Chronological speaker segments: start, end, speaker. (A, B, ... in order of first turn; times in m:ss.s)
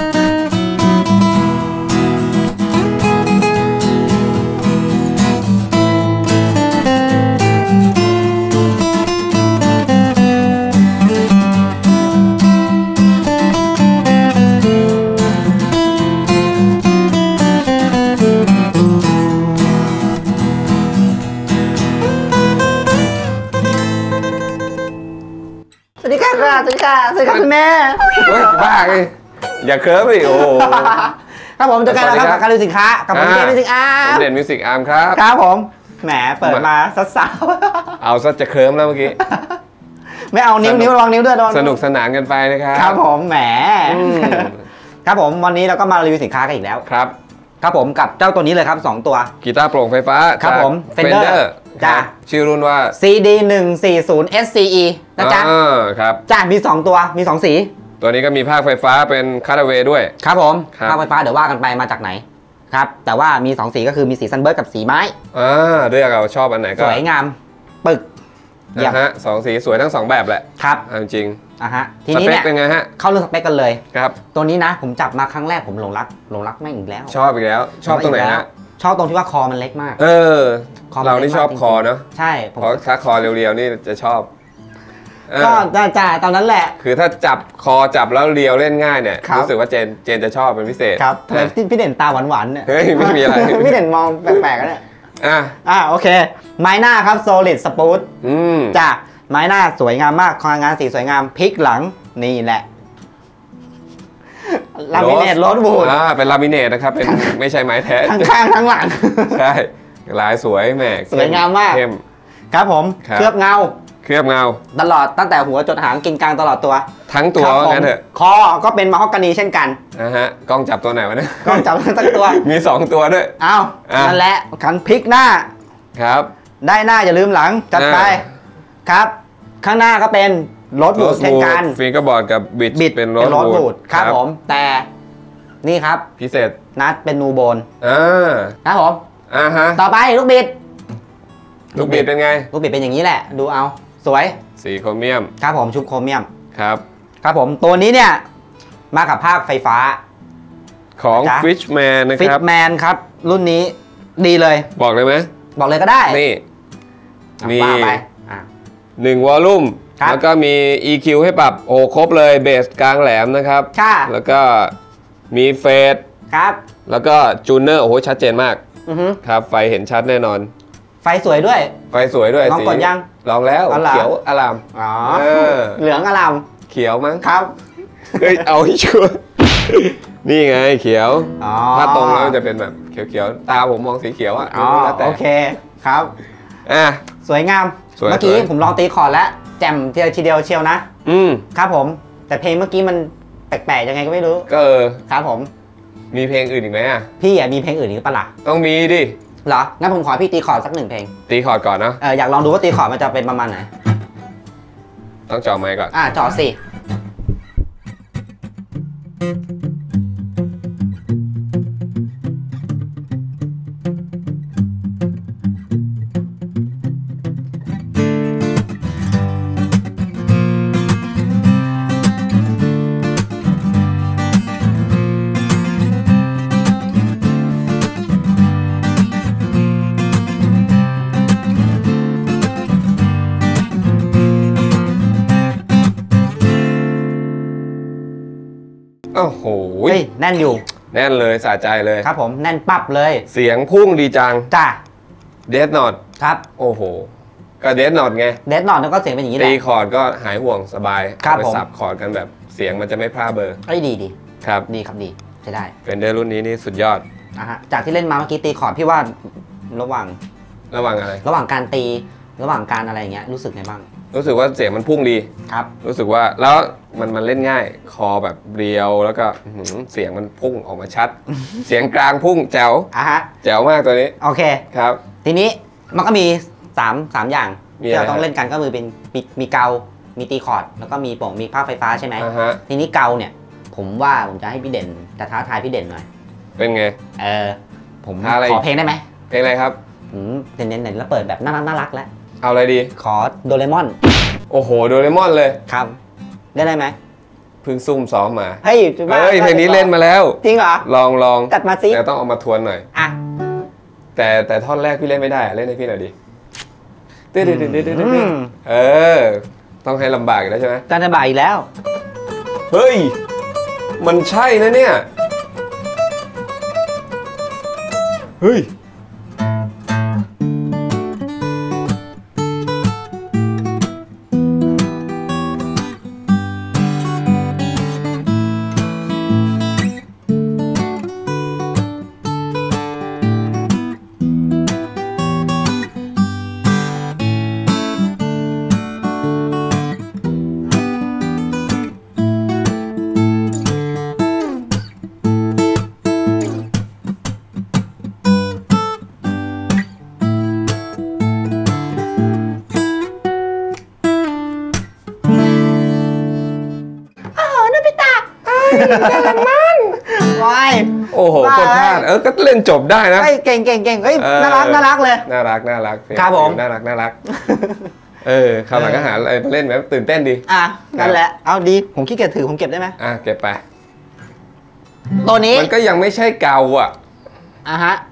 0:26.0-0:28.8 A
0:28.2-0:31.0 B
0:30.2-0:34.3 A
0:31.9-0:32.4 B
0:33.1-0:35.2 B
0:35.1-0:38.0 A
0:38.0-0:39.2 B
0:39.2-0:39.5 A
0:40.3-0:41.8 A
0:40.6-0:41.0 B
0:41.5-0:43.0 B
0:42.7-0:46.9 A
0:43.9-0:44.6 B
0:46.9-0:47.2 B
0:47.6-0:49.3 A
0:49.4-0:53.0 B
0:50.4-0:52.1 A
0:52.9-0:55.5 A
0:55.2-0:56.2 B
0:56.3-0:57.7 A
0:58.0-1:00.2 B
1:00.2-1:05.2 A
1:00.7-1:01.0 B
1:05.3-1:07.0 B
1:06.8-1:08.1 A
1:08.7-1:09.0 A
1:08.8-1:11.4 B
1:10.6-1:10.9 A
1:11.6-1:17.2 A
1:12.1-1:12.9 B
1:13.9-1:14.2 B
1:17.1-1:18.5 B
1:17.8-1:20.0 A
1:20.0-1:22.0 B
1:20.9-1:22.8 A
1:22.6-1:24.3 B
1:25.3-1:25.7 B
1:25.4-1:26.8 A
1:26.8-1:31.5 B
1:29.2-1:29.5 A
1:31.0-1:34.8 A
1:32.7-1:33.8 B
1:35.2-1:35.6 B
1:35.6-1:38.1 A
1:38.2-1:38.8 B
1:38.7-1:42.7 A
1:44.4-1:46.0 A
1:44.9-1:48.4 B
1:47.0-1:47.4 A
1:48.0-1:49.4 A
1:49.3-1:52.0 B
1:51.1-1:51.8 A
1:52.5-1:53.8 A
1:53.0-1:53.3 B
1:54.0-1:54.6 B
1:54.7-1:59.8 A
1:57.1-1:58.0 B
2:00.0-2:03.4 B
2:01.4-2:02.4 A
2:03.4-2:05.5 A
2:03.9-2:04.2 B
2:06.0-2:06.3 B
2:06.6-2:08.2 A
2:07.7-2:08.3 B
2:08.8-2:11.8 A
2:11.0-2:14.2 B
2:12.7-2:14.9 A
2:15.6-2:16.1 A
2:16.2-2:16.6 B
2:16.8-2:17.7 A
2:17.8-2:18.6 B
2:18.6-2:19.0 A
2:19.3-2:19.8 B
2:19.8-2:20.6 A
2:21.7-2:22.5 B
2:21.7-2:24.4 A
2:24.6-2:25.3 B
2:25.4-2:26.3 A
2:26.5-2:26.8 B
2:27.2-2:28.2 A
2:28.9-2:30.0 A
2:31.0-2:32.4 B
2:31.1-2:31.5 A
2:32.2-2:34.7 A
2:34.8-2:35.3 B
2:35.6-2:36.2 A
2:36.1-2:36.4 B
2:37.4-2:38.5 A
2:37.4-2:38.0 B
2:39.0-2:44.7 B
2:43.7-2:44.1 A
2:45.3-2:46.0 B
2:46.3-2:46.6 A
2:46.9-2:48.6 B
2:48.9-2:49.2 A
2:49.2-2:50.5 B
2:51.0-2:51.7 A
2:51.9-2:55.8 B
2:52.4-2:53.1 A
2:53.7-2:54.1 A
2:54.7-2:56.4 A
2:56.7-2:57.3 B
2:57.2-2:57.5 A
2:58.1-2:58.5 A
2:58.2-3:05.2 B
3:01.4-3:02.4 A
3:04.5-3:06.1 A
3:06.7-3:07.0 B
3:07.2-3:10.8 A
3:08.0-3:08.5 B
3:11.0-3:11.5 B
3:11.5-3:14.5 A
3:14.5-3:15.0 B
3:15.1-3:15.5 A
3:16.1-3:17.1 B
3:17.2-3:18.3 A
3:18.4-3:19.2 B
3:19.4-3:21.1 A
3:21.3-3:22.0 B
3:22.0-3:23.7 A
3:25.3-3:25.9 B
3:25.9-3:26.6 A
3:59.1-4:00.0 B
3:59.9-4:00.6 A
4:00.9-4:02.1 B
4:02.0-4:03.3 A
4:03.3-4:04.5 B
4:04.5-4:04.8 A
4:05.5-4:06.0 B
4:06.2-4:06.4 A
4:06.6-4:07.1 B
4:07.6-4:08.4 B
4:08.5-4:09.6 A
4:09.4-4:13.6 B
4:11.2-4:11.6 A
4:13.7-4:14.2 A
4:14.4-4:14.7 B
4:14.7-4:15.7 A
4:15.8-4:17.0 B
4:17.4-4:19.2 A
4:19.7-4:20.2 A
4:20.7-4:21.2 B
4:21.2-4:23.8 A
4:24.1-4:25.3 B
4:25.8-4:32.9 B
4:32.9-4:33.3 A
4:33.4-4:34.2 B
4:34.2-4:34.6 A
4:34.7-4:35.0 B
4:35.2-4:46.1 A
4:37.8-4:38.3 B
4:42.2-4:42.6 B
4:46.6-4:47.0 B
4:47.2-4:49.0 A
4:48.2-4:48.6 B
4:49.3-4:49.8 B
4:50.1-4:52.1 A
4:52.4-4:52.9 B
4:53.0-4:54.0 A
4:54.5-4:55.6 B
4:55.7-4:56.0 A
4:56.5-4:57.0 A
4:57.6-5:02.8 B
4:58.6-5:00.9 A
5:01.5-5:02.0 A
5:04.2-5:06.1 B
5:07.3-5:10.8 B
5:07.4-5:08.5 A
5:10.9-5:11.7 A
5:12.7-5:13.2 B
5:14.0-5:15.1 B
5:18.4-5:18.7 B
5:57.4-6:02.1 A
5:58.5-6:00.0 B
6:01.1-6:03.3 B
6:03.2-6:05.3 A
6:04.2-6:07.2 B
6:06.1-6:06.6 A
6:07.3-6:07.9 A
6:08.2-6:10.4 B
6:08.7-6:09.2 A
6:10.5-6:13.0 A
6:13.0-6:13.6 B
6:15.2-6:15.7 A
6:15.4-6:16.9 B
6:17.7-6:18.0 A